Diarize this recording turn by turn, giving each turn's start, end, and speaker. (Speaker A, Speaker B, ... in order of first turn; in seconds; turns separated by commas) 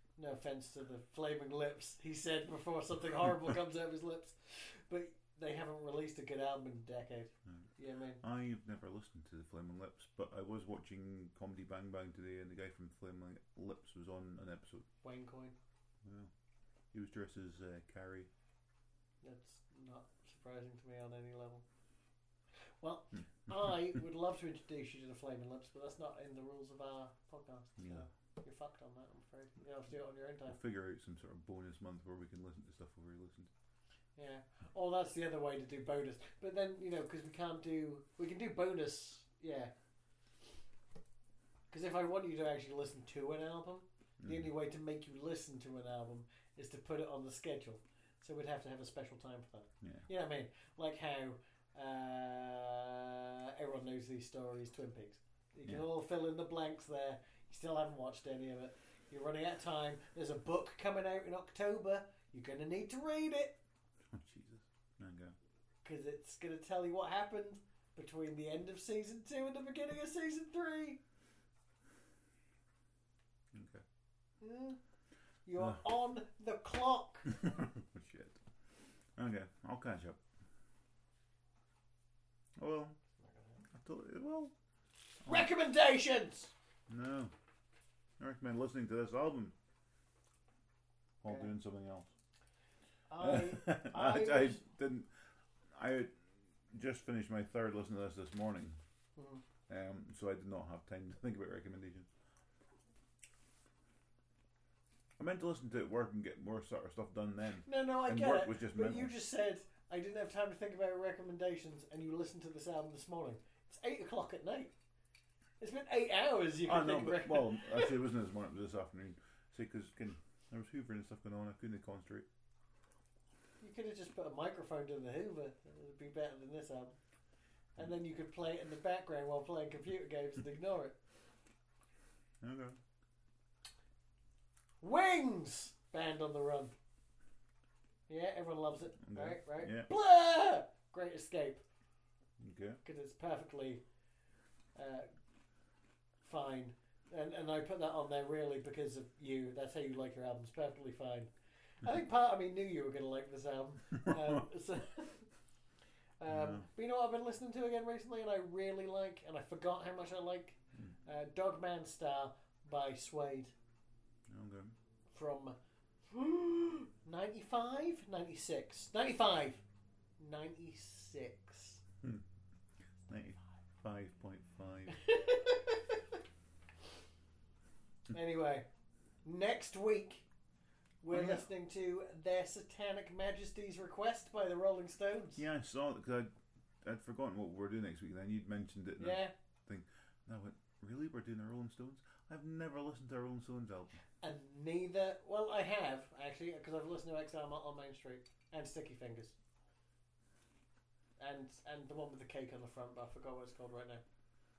Speaker A: 0.2-8.2, Speaker B: 8.2-14.9, Speaker A: 15.0-15.6, Speaker B: 16.0-16.3, Speaker B: 16.9-18.3, Speaker A: 19.2-21.6, Speaker A: 22.8-30.6, Speaker B: 27.8-28.1, Speaker B: 30.5-33.5, Speaker A: 34.2-39.7, Speaker A: 41.7-63.6, Speaker B: 44.2-44.5, Speaker B: 55.6-55.9, Speaker B: 64.1-65.3, Speaker A: 65.8-71.0, Speaker B: 73.5-73.8, Speaker A: 74.4-74.8, Speaker A: 75.5-77.3, Speaker B: 77.3-78.4, Speaker B: 79.2-80.2, Speaker B: 82.6-83.0, Speaker A: 83.2-83.6, Speaker B: 83.7-84.5, Speaker B: 85.2-85.5, Speaker A: 85.2-86.5, Speaker B: 86.9-87.3, Speaker B: 88.2-89.5, Speaker B: 91.2-92.1, Speaker A: 93.1-94.6, Speaker B: 93.2-95.1, Speaker B: 95.7-98.8, Speaker A: 99.2-99.4, Speaker B: 99.7-102.1, Speaker B: 105.2-109.1, Speaker A: 107.7-114.7, Speaker A: 115.6-117.9, Speaker B: 116.6-122.3, Speaker A: 123.6-127.0, Speaker A: 127.8-131.0, Speaker B: 132.4-132.8, Speaker A: 134.8-136.7, Speaker A: 138.1-141.6, Speaker B: 139.0-139.9, Speaker B: 142.4-142.8, Speaker A: 142.8-143.8, Speaker A: 144.8-145.1, Speaker A: 146.2-151.3, Speaker A: 151.8-155.3, Speaker A: 156.2-163.5, Speaker B: 156.3-156.7, Speaker B: 164.3-164.8, Speaker A: 165.1-165.6, Speaker A: 166.1-169.6, Speaker A: 170.2-171.8, Speaker B: 173.1-175.0, Speaker A: 175.0-176.0, Speaker A: 178.1-178.7, Speaker A: 179.2-180.3, Speaker A: 181.0-185.4, Speaker B: 181.1-181.4, Speaker B: 185.4-193.9, Speaker A: 189.0-189.3, Speaker A: 194.2-199.3, Speaker A: 201.2-204.0